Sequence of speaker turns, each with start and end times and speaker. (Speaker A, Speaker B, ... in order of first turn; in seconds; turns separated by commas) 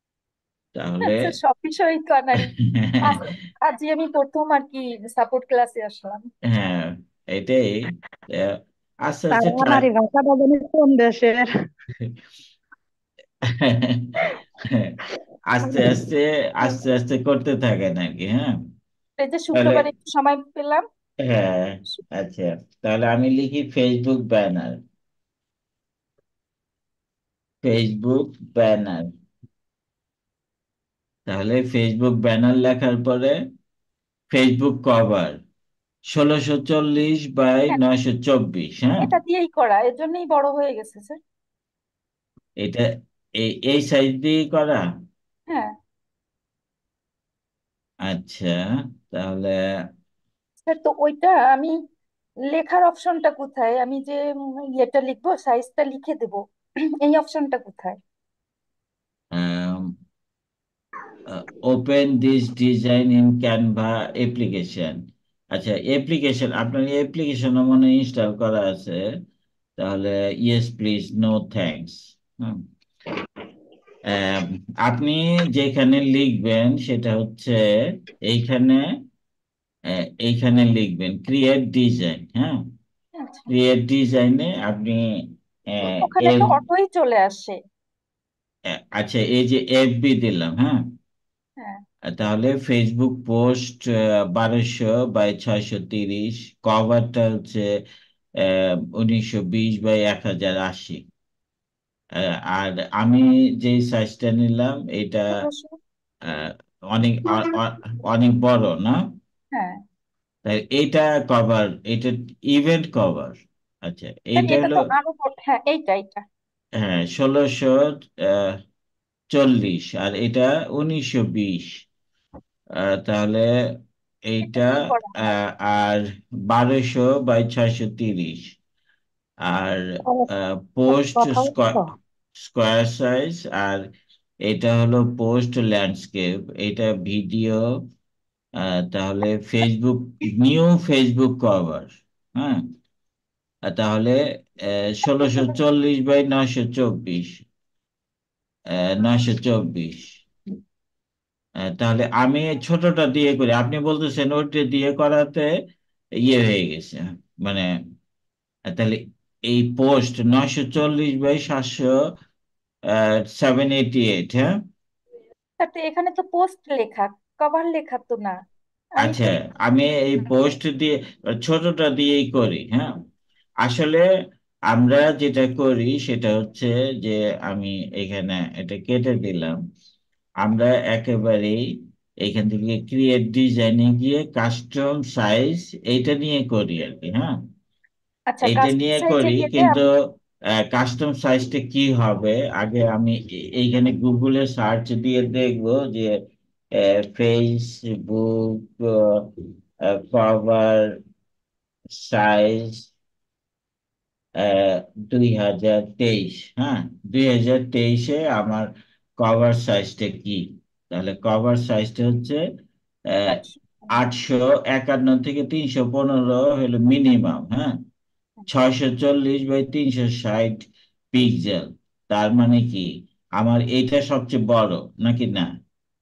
Speaker A: 0.7-1.3, Speaker B: 1.0-6.2, Speaker A: 2.4-3.3, Speaker A: 6.5-8.6, Speaker A: 9.1-9.8, Speaker C: 9.3-11.5, Speaker A: 13.5-14.9, Speaker A: 15.5-18.6, Speaker B: 19.2-20.8, Speaker A: 19.5-19.9, Speaker A: 21.2-24.8, Speaker A: 27.6-29.1, Speaker A: 31.3-33.4, Speaker A: 34.3-35.4, Speaker A: 36.1-39.1, Speaker B: 39.0-41.2, Speaker A: 42.6-42.9, Speaker A: 43.4-44.8, Speaker B: 45.5-45.7, Speaker A: 48.1-49.5, Speaker B: 50.6-51.7, Speaker B: 52.5-54.2, Speaker B: 54.8-56.4, Speaker B: 57.0-58.0, Speaker A: 59.3-59.9, Speaker A: 61.3-65.0, Speaker A: 65.5-69.0, Speaker A: 69.8-72.6, Speaker A: 74.1-77.6, Speaker A: 78.3-78.8, Speaker A: 80.2-82.6, Speaker B: 83.2-83.5, Speaker A: 83.5-85.0, Speaker A: 85.7-86.5, Speaker B: 85.9-87.6, Speaker A: 89.0-90.8, Speaker A: 92.1-97.6, Speaker A: 98.4-101.0, Speaker A: 102.2-105.5, Speaker B: 105.3-105.7, Speaker A: 106.3-109.0, Speaker B: 109.5-109.8, Speaker A: 110.5-114.8, Speaker B: 114.4-116.2, Speaker A: 116.8-118.5, Speaker A: 119.3-121.7, Speaker A: 122.8-123.5, Speaker A: 124.3-128.5, Speaker B: 124.4-125.3, Speaker A: 129.5-131.8, Speaker C: 130.9-131.9, Speaker A: 132.4-133.8, Speaker A: 134.4-137.6, Speaker A: 138.6-142.6, Speaker A: 143.7-144.2, Speaker A: 144.7-147.4, Speaker A: 148.7-150.1, Speaker A: 151.7-155.5, Speaker A: 156.2-157.7, Speaker A: 158.7-161.9, Speaker A: 162.9-164.5, Speaker B: 165.6-168.3, Speaker A: 169.0-172.9, Speaker B: 169.0-169.3, Speaker A: 173.6-174.0, Speaker A: 174.7-179.6, Speaker A: 180.4-181.6, Speaker A: 182.2-187.4, Speaker B: 188.3-189.8, Speaker A: 188.4-189.9, Speaker A: 190.6-196.1, Speaker A: 196.8-199.3, Speaker A: 199.9-200.9, Speaker A: 201.9-202.9, Speaker A: 204.4-208.7, Speaker A: 209.2-212.4, Speaker B: 213.3-213.6, Speaker A: 213.9-217.7, Speaker A: 218.5-225.5